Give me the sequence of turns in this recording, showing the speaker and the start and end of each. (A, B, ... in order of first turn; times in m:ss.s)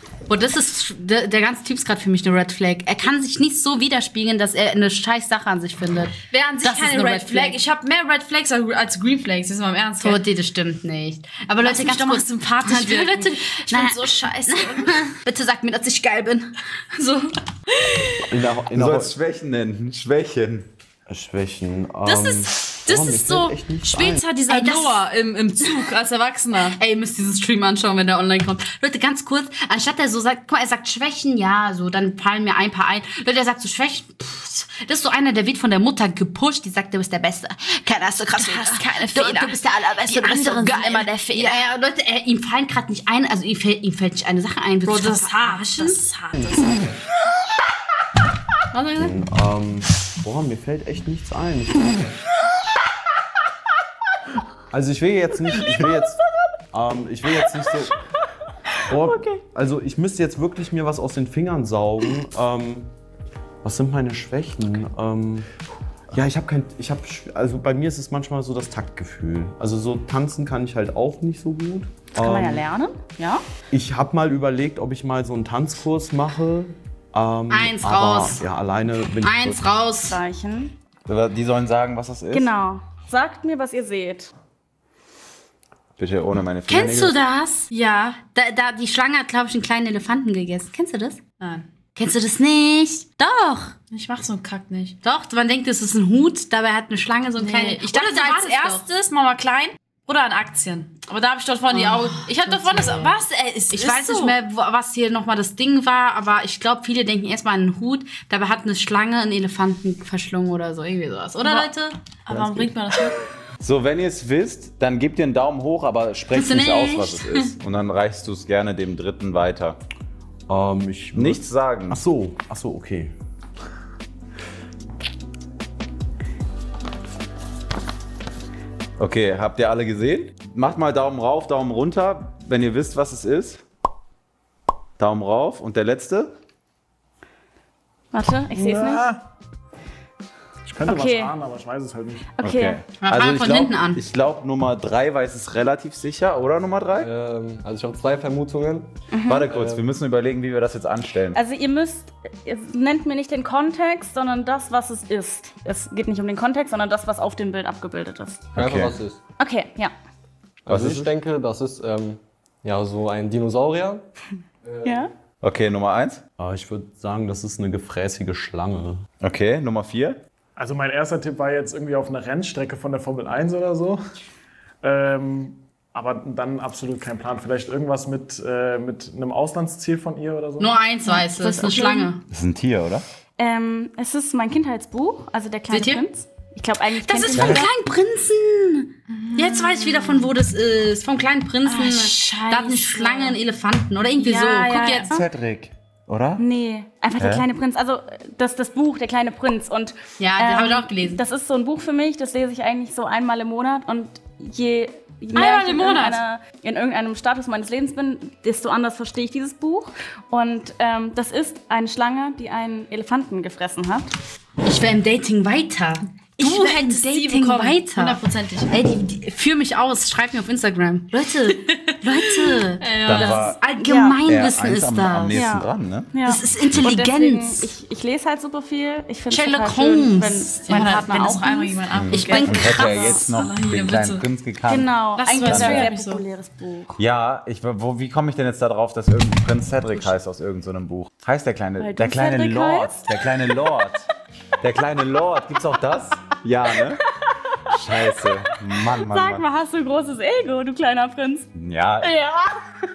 0:00.3-0:07.6 A
0:06.3-0:10.2 B
0:10.0-0:17.4 A
0:11.6-0:15.1 B
0:18.3-0:19.1 C
0:18.7-0:20.7 D
0:21.1-0:24.2 C
0:22.1-0:26.8 B
0:24.5-0:25.0 A
0:26.8-0:46.0 A
0:38.4-0:41.6 B
0:44.8-0:46.8 B
0:48.7-0:49.2 A
0:49.0-0:52.1 C
0:54.7-0:58.0 C
0:58.9-1:02.9 C
1:03.6-1:05.5 C
1:06.1-1:12.7 C
1:12.2-1:13.4 E
1:13.7-1:19.7 C
1:17.5-1:18.4 A
1:19.2-1:20.2 A
1:20.1-1:20.7 E
1:21.1-1:22.5 D
1:22.3-1:24.3 E
1:26.0-1:27.2 D
1:26.7-1:31.2 A
1:27.7-1:28.2 B
1:31.4-1:31.7 B
1:32.0-1:33.7 A
1:33.9-1:35.0 B
1:35.0-1:38.8 A
1:37.4-1:44.4 B
1:41.7-1:43.1 A
1:43.7-1:51.9 A
1:51.4-1:51.7 B
1:52.2-1:53.2 B
1:52.4-1:52.6 F
1:53.6-1:59.8 D
1:56.3-1:57.5 A
2:00.5-2:03.1 C
2:01.2-2:02.0 D
2:09.0-2:13.6 D
2:15.0-2:16.3 D
2:18.1-2:19.1 E
2:18.6-2:19.2 G
2:20.7-2:22.4 G
2:20.8-2:21.3 E
2:22.4-2:27.1 D
2:22.4-2:22.8 E
2:23.0-2:24.0 A
2:27.0-2:28.9 F
2:29.1-2:29.5 E
2:29.3-2:31.4 D
2:29.5-2:29.8 F
2:31.4-2:38.6 E
2:38.6-2:39.0 D
2:38.6-2:39.2 F
2:39.4-2:39.9 E
2:40.7-2:44.0 F
2:40.7-2:41.1 D
2:44.6-2:45.0 F
2:44.8-2:45.1 E
2:45.4-2:46.2 D
2:46.4-2:49.0 C
2:49.2-2:50.2 D
2:50.6-2:54.0 G
2:54.8-3:00.8 G
3:00.6-3:02.2 A
3:01.1-3:02.1 B
3:01.4-3:01.8 E
3:02.3-3:03.0 D
3:03.4-3:07.7 E
3:05.7-3:06.0 A
3:07.0-3:07.5 B
3:07.4-3:15.1 A
3:09.1-3:10.3 B
3:11.6-3:13.4 B
3:14.2-3:15.1 B
3:15.1-3:16.4 D
3:16.4-3:34.1 E
3:17.2-3:17.4 D
3:20.2-3:21.2 A
3:25.3-3:26.2 B
3:34.6-3:45.4 A
3:36.4-3:38.7 B
3:41.2-3:43.5 B
3:43.0-3:43.6 D
3:43.8-3:44.2 E
3:44.2-3:46.2 D
3:45.3-3:51.8 E
3:46.2-3:47.7 A
3:49.3-3:51.0 A
3:50.7-3:54.2 B
3:51.9-3:55.9 D
3:52.1-3:53.3 A
3:54.7-3:57.0 E
3:55.2-3:56.2 B
3:57.0-4:04.1 D
4:01.8-4:03.3 E
4:04.6-4:07.0 D
4:07.7-4:09.4 D
4:07.7-4:11.5 E
4:11.6-4:12.2 D
4:12.0-4:12.7 E